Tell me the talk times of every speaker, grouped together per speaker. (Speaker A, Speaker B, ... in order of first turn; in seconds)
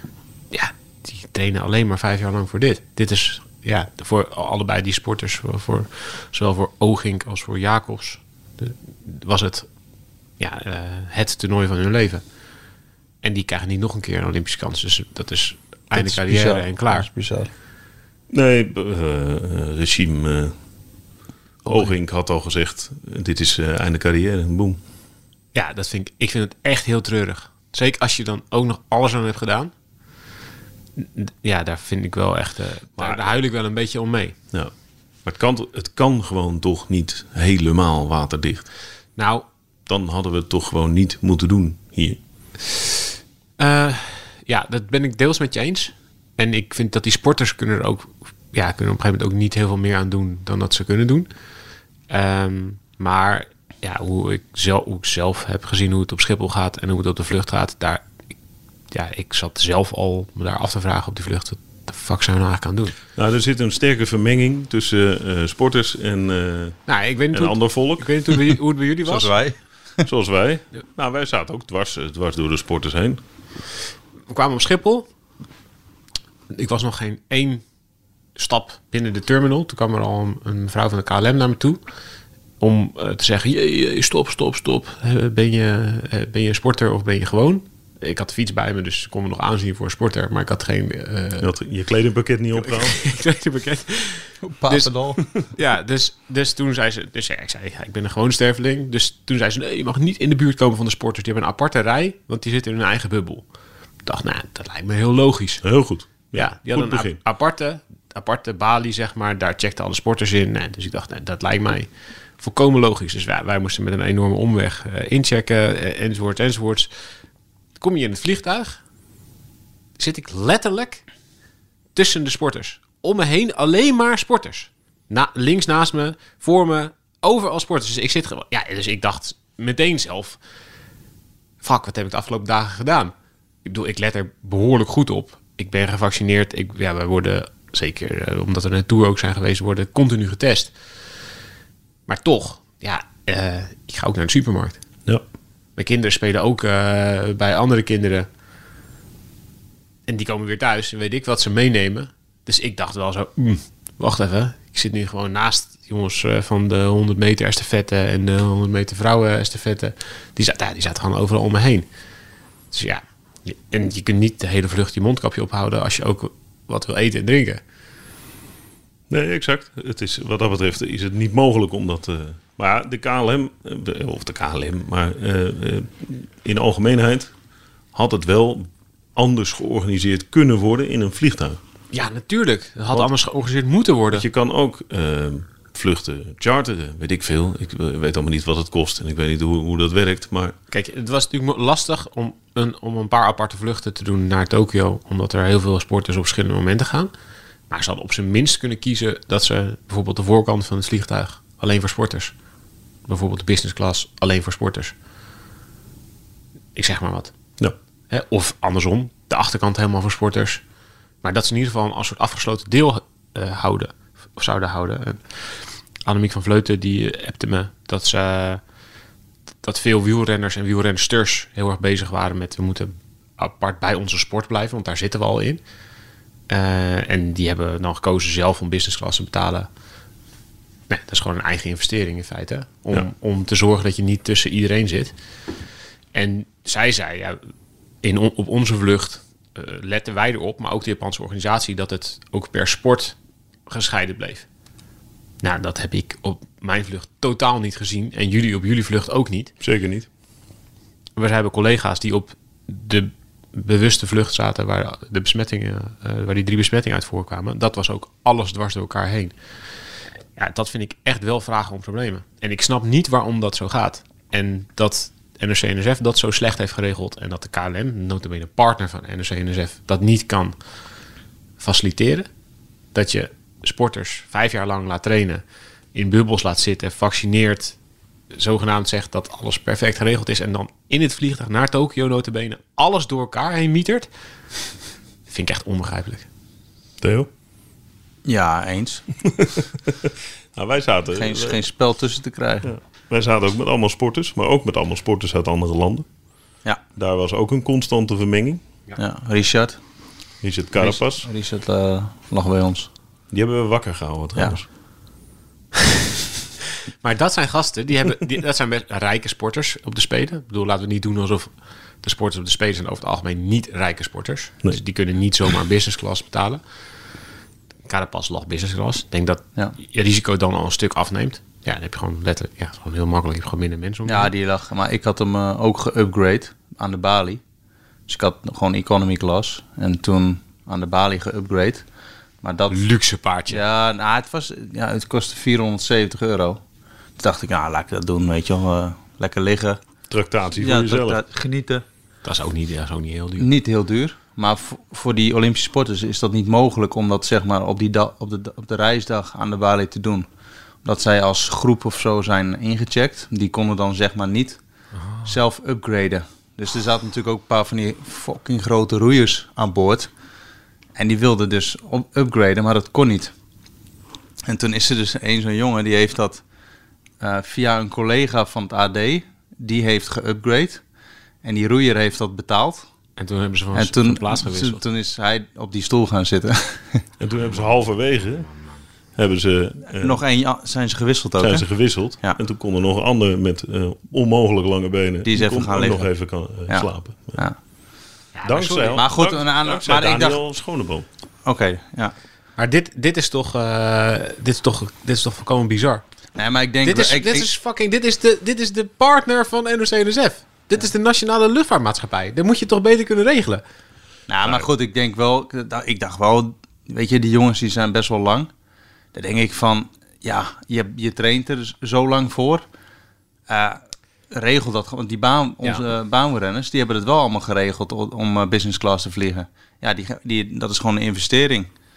Speaker A: 0.5-9.7, 10.4-12.2, 13.2-17.1, 21.6-21.9, 25.5-29.7, 31.0-34.4, 39.2-39.5, 43.6-51.3, 52.1-58.0, 58.9-62.9, 66.9-69.3, 74.3-75.1, 76.5-77.6, 78.3-81.8, 82.6-91.5, 92.6-103.4, 104.0-105.6, 106.3-116.9, 117.8-118.8, 120.0-121.0, 121.9-130.4, 131.6-133.1, 133.6-140.7, 142.1-144.8, 145.8-148.3, 150.1-161.9, 162.7-167.6, 181.9-184.2, 190.7-197.1, 197.7-202.3, 203.1-204.9, 206.7-207.3, 208.1-210.6, 211.2-215.2, 216.0-218.6, 219.6-225.6, 226.5-229.7, 230.9-235.1, 236.1-237.4, 238.0-243.2, 243.7-244.4, 245.4-249.5, 251.2-259.3, 260.4-270.5, 271.6-272.3, 272.9-275.4, 275.9-277.8, 278.3-284.1, 285.3-286.3, 307.0-311.5, 312.0-316.6, 317.9-324.3, 332.7-333.6, 342.2-343.5, 373.2-374.8, 388.4-389.0, 392.6-396.0, 396.8-403.6
Speaker B: 15.9-17.5, 69.0-70.0, 94.4-95.3, 288.2-289.1, 291.1-292.7, 298.9-299.8, 300.8-302.9, 324.1-327.4, 328.1-331.8, 332.4-332.8, 333.5-336.6, 337.2-339.8, 340.6-341.8, 343.4-350.3, 350.8-354.6, 355.2-360.1, 360.9-363.3, 364.4-366.4, 367.2-370.8, 371.4-372.9, 373.7-377.1, 379.9-382.4, 385.2-386.1, 386.7-387.6, 388.9-390.4, 391.4-392.1, 396.4-397.5, 404.3-408.5, 409.1-412.6, 413.5-413.8, 414.3-421.7
Speaker C: 18.3-20.5, 21.6-24.8, 33.0-33.3, 35.2-38.7, 39.9-42.2, 63.1-68.6, 70.0-73.2, 91.4-93.0, 105.6-107.2, 169.1-177.3, 177.9-181.6, 184.1-190.6, 249.6-250.1, 287.0-287.3, 289.2-291.6, 292.6-296.1, 296.9-298.6, 300.4-301.3, 303.3-304.7, 340.1-341.2, 377.2-378.5, 379.1-380.2, 381.4-387.4, 388.4-391.1